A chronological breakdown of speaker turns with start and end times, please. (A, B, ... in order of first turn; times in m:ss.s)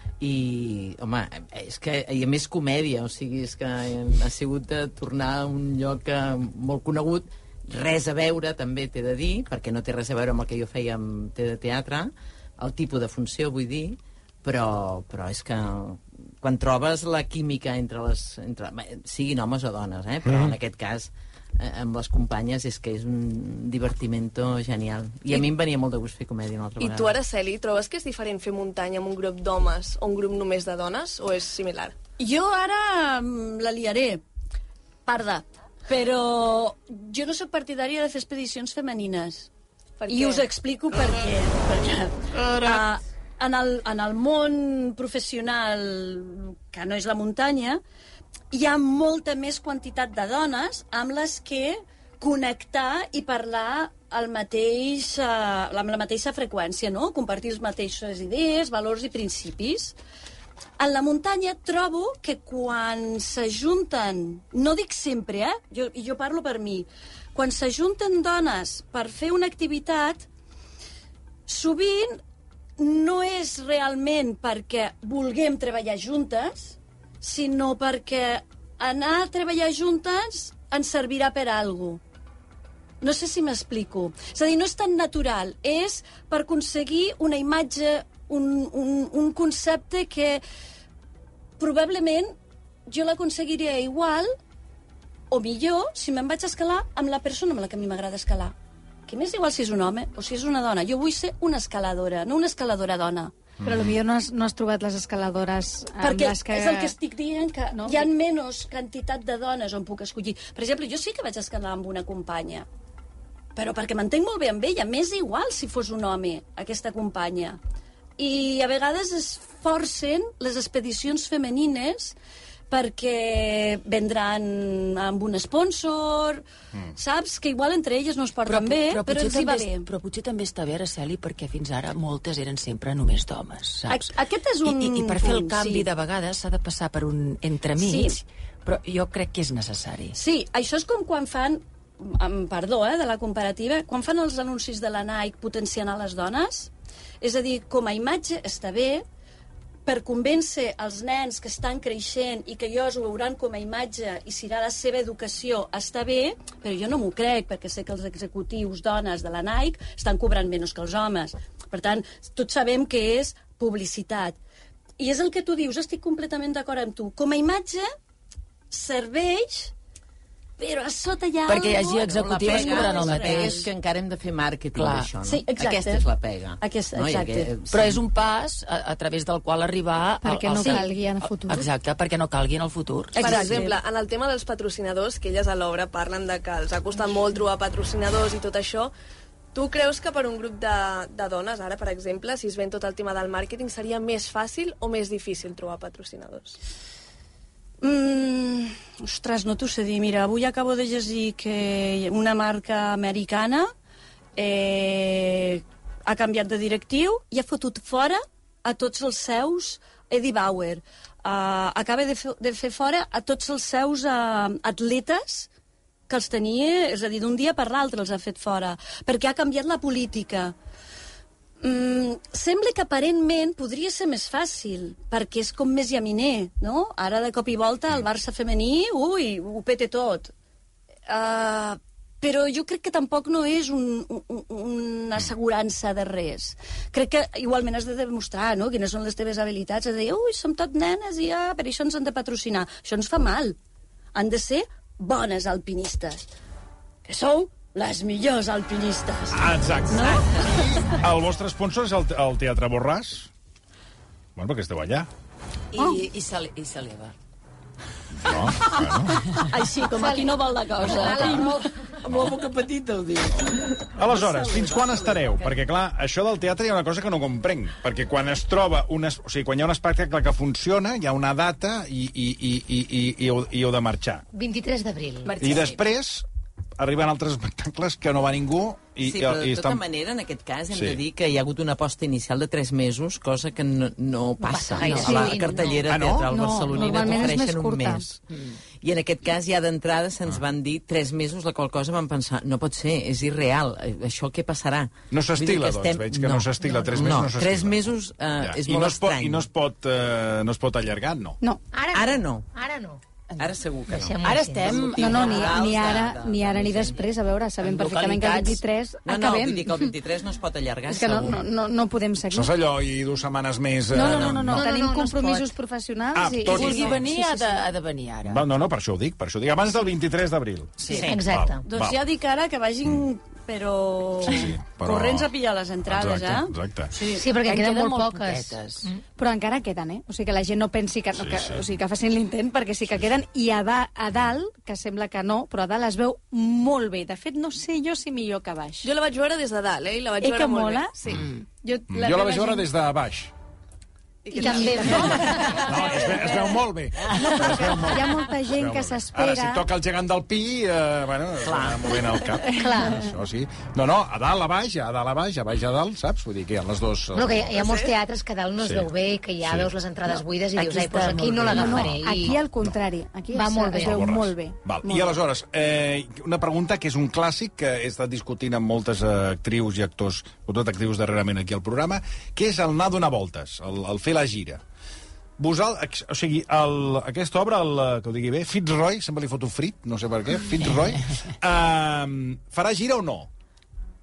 0:00.2-0:27.2 A
0:20.3-0:20.5 B
0:26.8-0:32.0 C
0:32.2-0:34.2 D
0:35.0-0:39.5 D
0:40.0-0:40.4 C
0:40.1-0:47.8 D
0:48.5-1:00.0 D
1:00.8-1:10.2 D
1:11.5-1:12.2 D
1:12.8-1:22.0 D
1:23.0-1:30.4 D
1:31.6-1:32.3 D
1:32.9-1:34.3 D
1:35.3-1:38.5 D
1:39.1-1:43.3 D
1:43.6-1:44.0 B
1:43.6-1:46.9 E
1:46.0-1:52.6 D
1:47.7-1:48.0 E
1:53.5-1:57.6 D
1:58.2-2:02.1 D
2:02.7-2:06.4 D
2:07.0-2:09.9 D
2:08.4-2:20.2 F
2:13.9-2:15.9 D
2:17.8-2:18.2 D
2:20.1-2:26.7 D
2:27.2-2:29.0 D
2:29.8-2:44.4 D
2:45.0-2:47.9 D
2:48.7-2:49.7 D
2:50.6-2:53.7 D
2:51.5-2:53.6 F
2:52.0-2:58.0 A
2:54.8-2:55.1 F
2:55.2-2:56.1 D
2:56.6-2:57.5 D
2:57.7-3:03.4 F
3:00.2-3:01.7 E
3:03.1-3:03.8 D
3:03.2-3:08.9 C
3:09.5-3:16.6 C
3:17.8-3:23.7 D
3:24.4-3:35.5 D
3:36.1-3:40.5 D
3:41.6-3:50.3 D
3:51.1-4:03.6 D
4:04.1-4:06.2 D
4:07.0-4:11.0 D
4:09.3-4:13.3 B
4:14.4-4:15.1 B
4:15.7-4:17.1 F
4:18.1-4:19.3 B
4:18.8-4:21.6 D
4:20.0-4:20.3 G
4:20.8-4:23.9 F
4:20.8-4:21.5 B
4:21.0-4:21.6 G
4:22.0-4:22.3 B
4:24.0-4:34.2 B
4:24.0-4:25.2 D
4:24.5-4:25.5 F
4:34.3-4:35.5 G
4:35.2-4:35.7 F
4:35.4-4:36.2 B
4:36.8-4:39.8 B
4:39.0-4:48.2 A
4:40.7-4:41.0 B
4:44.4-4:45.9 G
4:44.8-4:45.7 F
4:45.0-4:45.3 E
4:45.8-4:47.2 B
4:46.3-4:48.0 E
4:48.8-4:59.5 A
4:55.1-5:01.4 B
5:01.7-5:03.0 G
5:01.9-5:02.5 A
5:03.4-5:07.1 A
5:04.0-5:05.0 G
5:04.2-5:05.8 F
5:05.0-5:09.9 E
5:07.6-5:08.6 F
5:09.0-5:11.4 A
5:10.9-5:12.5 E
5:12.3-5:14.7 B
5:13.9-5:17.6 E
5:13.9-5:15.5 G
5:14.0-5:14.5 A
5:16.1-5:17.0 B
5:16.5-5:18.4 F
5:18.2-5:22.0 B
5:20.8-5:21.1 F
5:20.9-5:21.2 A
5:21.0-5:21.6 G
5:21.6-5:27.2 D
5:24.2-5:25.3 B
5:25.8-5:26.9 B
5:27.1-5:29.0 G
5:27.3-5:28.9 F
5:29.2-5:38.9 E
5:31.2-5:31.6 B
5:38.8-5:41.0 C
5:40.2-5:42.7 E
5:41.1-5:41.4 F
5:41.9-5:43.3 B
5:44.3-5:45.6 G
5:44.3-5:45.7 E
5:44.3-5:44.8 C
5:44.9-5:57.6 B
5:47.2-5:49.6 E
5:51.4-5:51.8 A
5:52.5-5:53.1 G
5:57.1-6:02.4 G
5:57.6-5:57.9 C
5:58.6-6:00.2 B
6:00.9-6:05.2 E
6:01.0-6:01.3 D
6:01.7-6:02.7 B
6:03.3-6:04.0 G
6:03.8-6:14.6 B
6:15.4-6:23.3 B